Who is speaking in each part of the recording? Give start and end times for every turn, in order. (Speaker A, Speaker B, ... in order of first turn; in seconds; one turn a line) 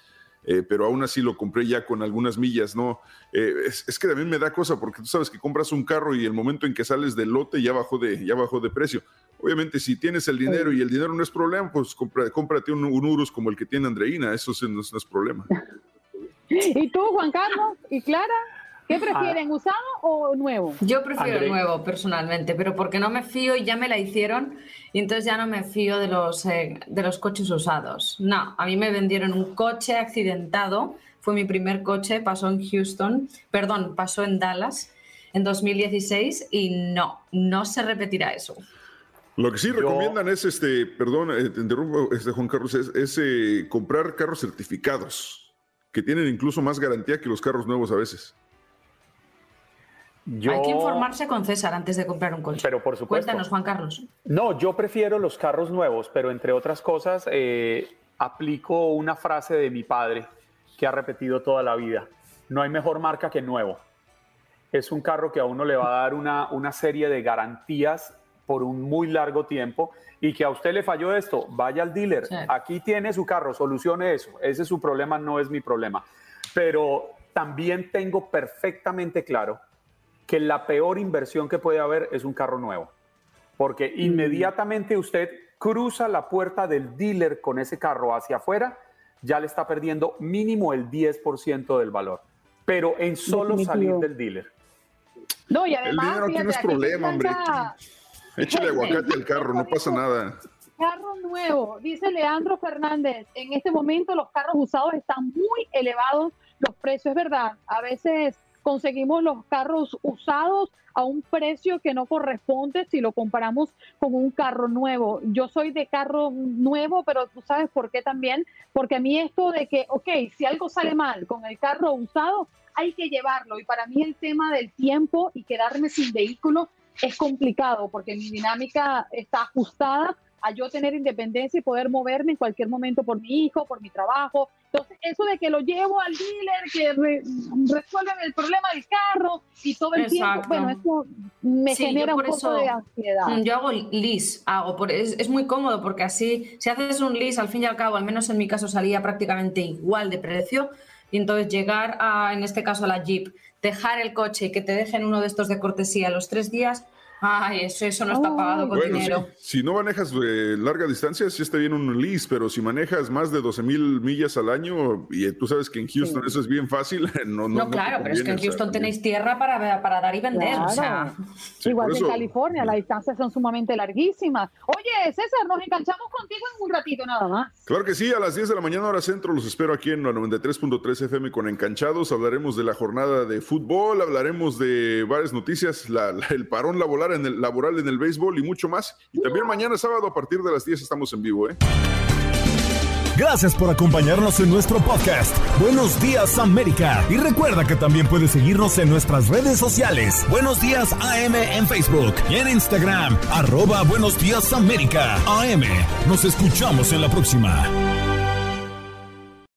Speaker A: 0.5-15.5
Speaker B: 16.5-18.4
Speaker B: 18.9-20.8
Speaker C: 19.1-19.4
Speaker D: 20.8-38.6
Speaker C: 21.2-21.6
Speaker A: 39.4-48.4
Speaker C: 39.7-40.2
Speaker C: 50.3-51.1
Speaker D: 50.5-54.1
Speaker C: 52.6-53.5
Speaker C: 54.2-63.8
Speaker C: 64.7-79.6
Speaker C: 80.3-82.9
Speaker C: 83.6-94.5
Speaker B: 84.0-84.4
Speaker B: 93.3-94.1
Speaker B: 95.5-97.7
Speaker A: 95.8-97.7
Speaker A: 98.4-100.4
Speaker B: 98.5-100.0
Speaker B: 100.8-143.4
Speaker D: 139.9-140.8
Speaker D: 141.7-142.7
Speaker D: 143.3-159.3
Speaker B: 158.1-159.2
Speaker A: 158.7-168.9
Speaker B: 166.0-166.4
Speaker D: 167.5-171.1
Speaker B: 170.3-177.5
Speaker A: 171.6-172.6
Speaker A: 177.7-191.6
Speaker E: 193.2-207.7